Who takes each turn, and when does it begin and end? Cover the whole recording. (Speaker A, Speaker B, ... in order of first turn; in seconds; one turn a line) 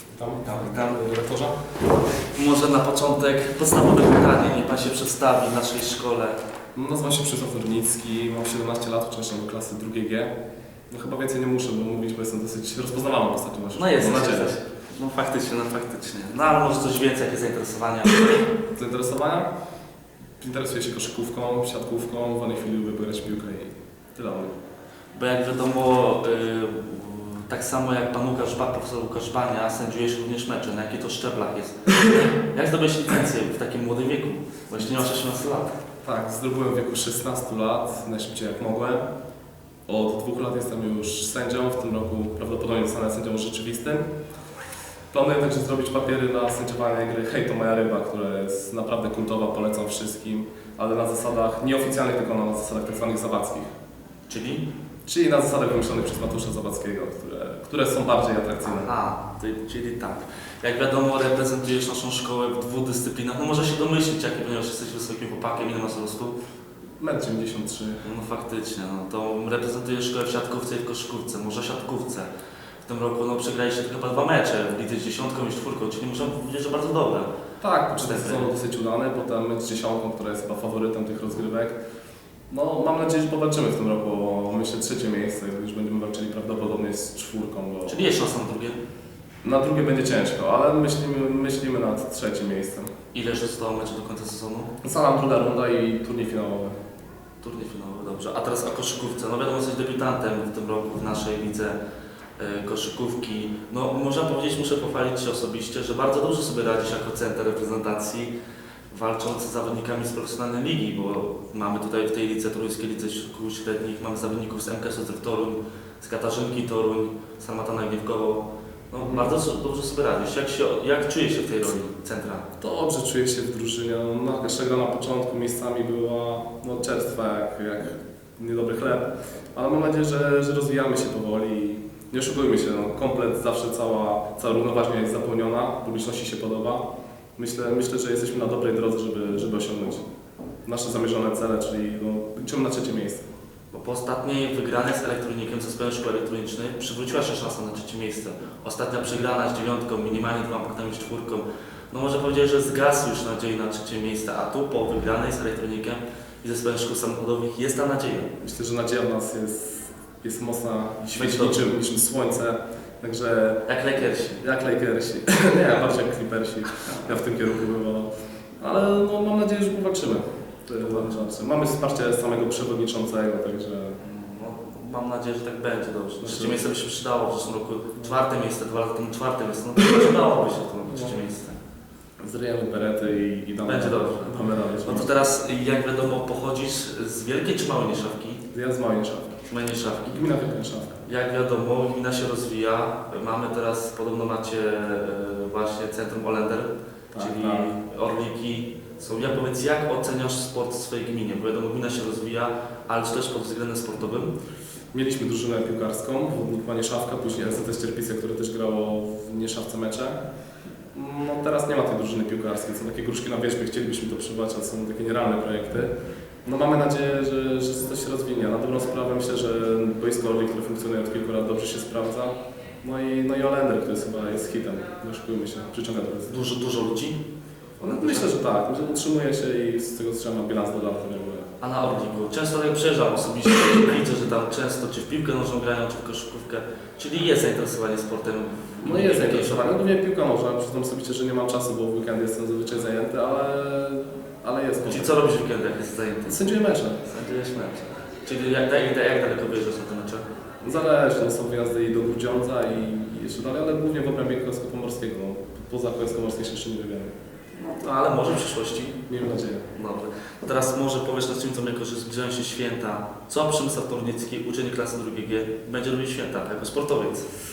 Speaker A: 0.1-1.7
Speaker B: 0.4-1.0
Speaker B: 2.3-6.4
Speaker A: 6.7-10.3
Speaker A: 10.9-14.5
Speaker B: 13.7-18.3
Speaker A: 18.7-19.5
Speaker A: 20.4-24.5
Speaker B: 25.1-35.7
Speaker A: 34.8-35.0
Speaker A: 36.0-39.0
Speaker A: 39.9-44.0
Speaker A: 45.1-53.7
Speaker B: 54.3-54.7
Speaker A: 55.0-58.9
Speaker B: 58.6-66.3
Speaker A: 67.0-68.0
Speaker B: 68.0-72.3
Speaker B: 72.8-77.3
Speaker A: 77.6-81.8
Speaker B: 78.0-78.5
Speaker A: 82.5-88.0
Speaker B: 87.8-88.8
Speaker A: 89.4-92.9
Speaker B: 93.1-94.7
Speaker A: 94.8-96.8
Speaker B: 97.4-101.8
Speaker B: 102.4-108.3
Speaker B: 108.9-122.4
Speaker A: 119.0-119.3
Speaker A: 122.6-136.8
Speaker A: 137.3-140.0
Speaker A: 140.7-143.2
Speaker B: 143.7-158.3
Speaker A: 158.4-163.6
Speaker B: 161.0-161.6
Speaker B: 163.7-164.4
Speaker A: 164.4-174.0
Speaker B: 174.0-181.6
Speaker A: 176.2-176.7
Speaker A: 180.8-181.2
Speaker A: 182.2-185.1
Speaker B: 183.6-188.4
Speaker A: 188.5-189.3
Speaker B: 189.5-190.2
Speaker A: 190.1-191.0
Speaker B: 191.0-204.3
Speaker A: 197.1-197.7
Speaker A: 204.9-210.2
Speaker A: 210.9-215.9
Speaker A: 216.4-226.4
Speaker B: 226.3-227.2
Speaker A: 227.8-231.5
Speaker B: 227.8-228.3
Speaker B: 231.6-239.6
Speaker A: 238.8-245.1
Speaker B: 244.8-246.4
Speaker A: 246.2-247.0
Speaker B: 247.0-250.2
Speaker A: 250.6-257.1
Speaker B: 257.6-259.0
Speaker A: 259.1-259.7
Speaker B: 259.7-267.3